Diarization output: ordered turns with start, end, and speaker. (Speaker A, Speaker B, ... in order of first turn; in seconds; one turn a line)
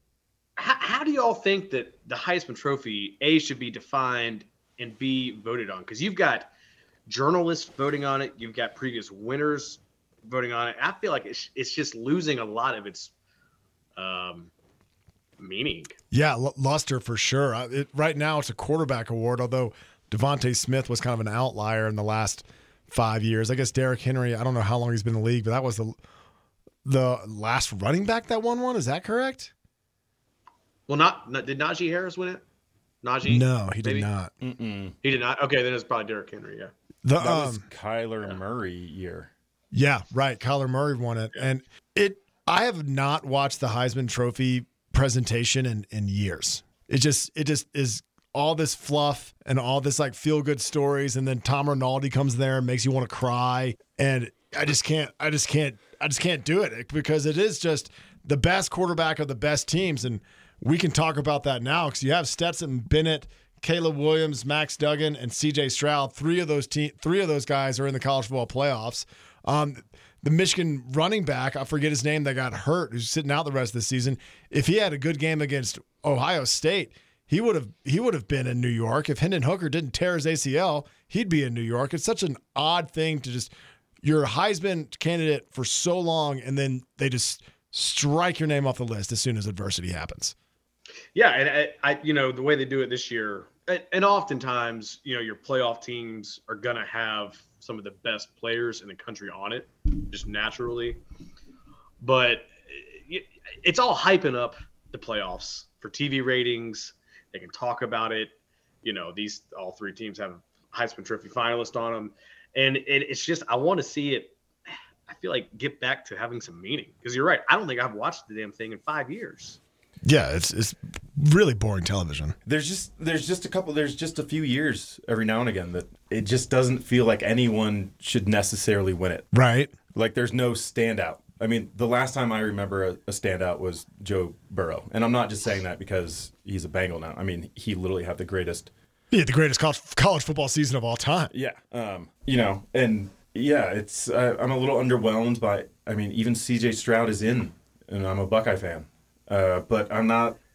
Speaker A: 0.6-6.5
Speaker A: 7.1-13.1
Speaker A: 14.0-14.5
Speaker A: 15.4-16.0
Speaker B: 16.1-26.0
Speaker B: 26.8-29.5
Speaker A: 30.9-32.4
Speaker A: 33.0-34.1
Speaker B: 33.3-34.3
Speaker C: 34.4-35.0
Speaker A: 35.0-36.7
Speaker B: 37.0-37.6
Speaker C: 37.2-39.3
Speaker B: 39.7-90.3
Speaker A: 91.1-101.0
Speaker A: 102.0-119.6
Speaker B: 120.0-122.3
Speaker C: 122.5-129.3
Speaker B: 129.3-129.7
Speaker C: 129.9-138.7
Speaker B: 139.1-141.3
Speaker C: 141.3-150.4